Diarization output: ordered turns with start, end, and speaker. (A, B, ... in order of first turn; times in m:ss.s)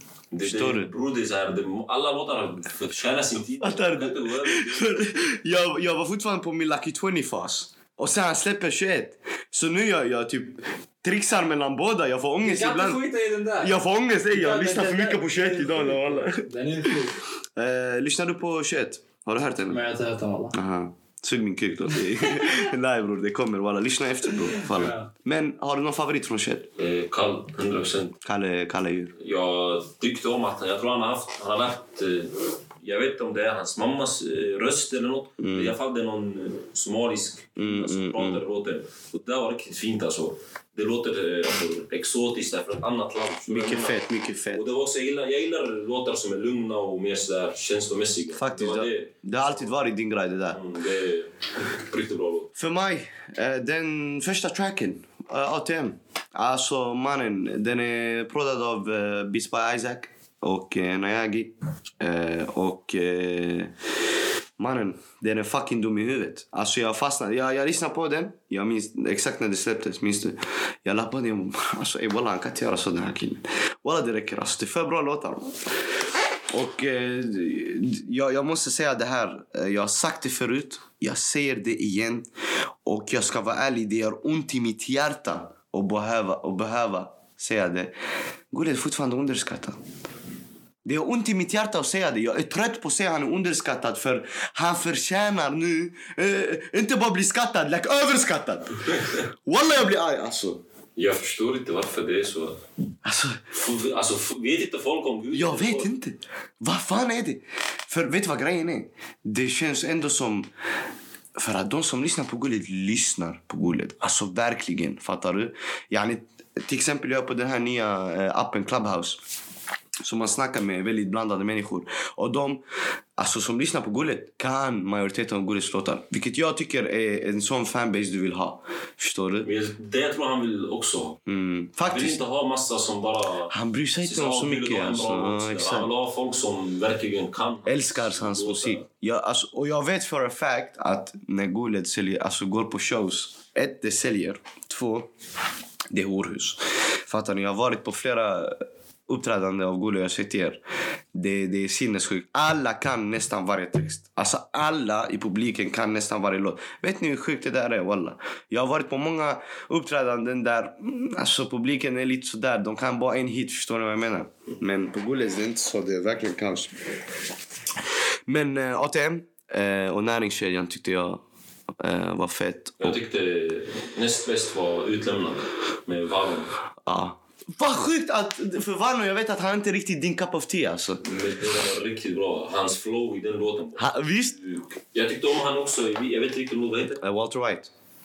0:00.3-0:05.0 A
0:00.4-0:00.9 B
0:03.6-0:13.0 B
0:12.4-0:13.8 C
0:13.6-0:19.8 B
0:14.3-0:17.2 C
0:19.7-0:20.6 C
0:20.5-0:26.7 B
0:22.2-0:22.6 C
0:24.4-0:25.1 C
0:26.8-0:28.2 A
0:28.2-0:29.1 B
0:29.2-0:44.0 A
0:35.4-0:35.8 B
0:37.6-0:38.4 B
0:43.5-0:44.6 B
0:44.5-0:49.7 A
0:48.4-0:50.6 B
0:50.5-0:52.5 A
0:52.6-1:03.7 B
1:04.6-1:15.7 B
1:16.5-1:22.3 B
1:22.8-1:27.9 B
1:28.5-1:29.8 B
1:30.8-1:40.6 B
1:41.0-1:42.6 A
1:43.0-1:43.5 B
1:43.6-1:45.9 A
1:45.3-1:50.5 B
1:51.4-1:59.2 B
2:00.0-2:02.6 B
2:03.2-2:09.5 B
2:09.4-2:11.2 A
2:11.3-2:12.2 B
2:11.9-2:18.8 A
2:13.5-2:15.9 B
2:17.7-2:25.1 B
2:25.9-2:30.6 B
2:31.1-2:46.7 B
2:48.3-2:51.2 B
2:51.8-2:53.0 B
2:52.8-2:56.5 A
2:56.8-3:01.0 B
3:01.0-3:07.0 A
3:03.8-3:04.4 B
3:07.0-3:07.7 B